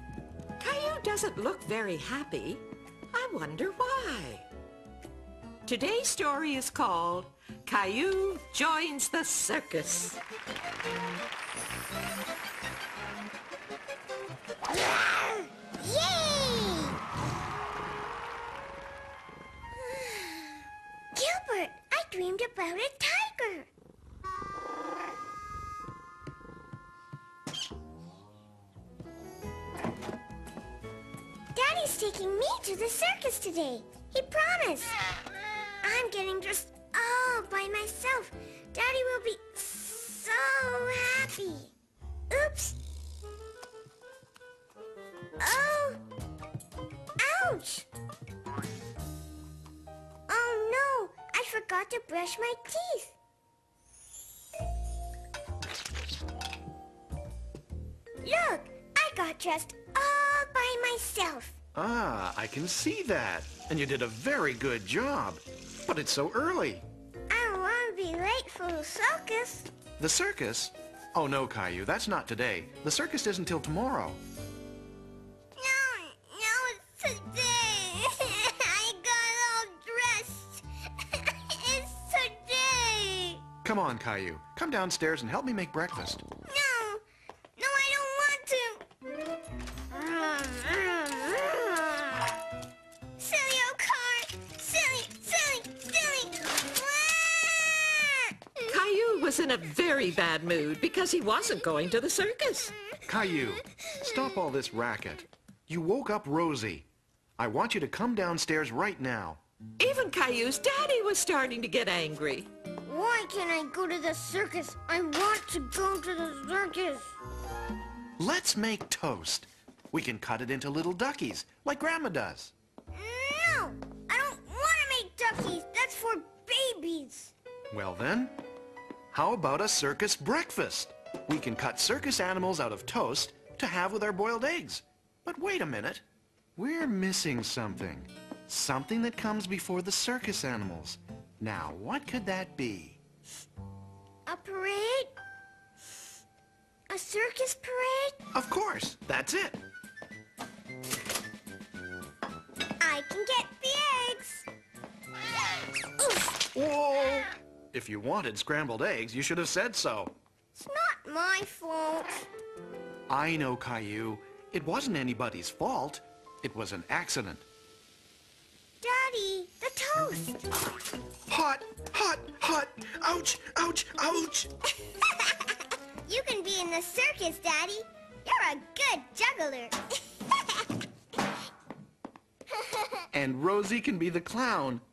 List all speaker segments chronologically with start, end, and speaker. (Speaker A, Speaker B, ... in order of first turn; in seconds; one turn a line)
Speaker A: 0.6-4.5
Speaker A: 5.7-10.2
Speaker B: 14.8-17.0
Speaker B: 19.8-20.6
Speaker B: 21.1-23.7
Speaker B: 31.5-34.9
Speaker B: 35.8-41.7
Speaker B: 42.3-42.8
Speaker B: 45.4-46.0
Speaker B: 47.2-47.9
Speaker B: 50.3-53.1
Speaker B: 58.2-61.5
Speaker C: 61.8-66.8
Speaker B: 67.3-69.7
Speaker C: 70.0-74.2
Speaker B: 75.5-83.4
Speaker C: 83.6-86.2
Speaker B: 86.5-87.0
Speaker B: 87.6-88.8
Speaker B: 89.9-92.3
Speaker B: 93.2-98.3
Speaker A: 98.7-102.8
Speaker C: 103.1-106.9
Speaker C: 107.4-109.4
Speaker A: 109.8-112.5
Speaker B: 112.8-117.2
Speaker C: 118.2-122.5
Speaker B: 122.9-127.3
Speaker C: 127.7-128.3
Speaker C: 129.1-136.0
Speaker C: 136.6-143.0
Speaker B: 144.3-145.1
Speaker B: 146.9-148.2
Speaker C: 148.3-149.6
Speaker B: 152.8-154.5
Speaker B: 156.0-156.4
Speaker C: 156.5-160.1
Speaker B: 160.6-162.3
Speaker C: 163.1-167.4
Speaker B: 168.8-170.4
Speaker C: 171.3-174.5
Speaker B: 176.1-180.4
Speaker B: 182.6-182.9
Speaker C: 183.1-184.8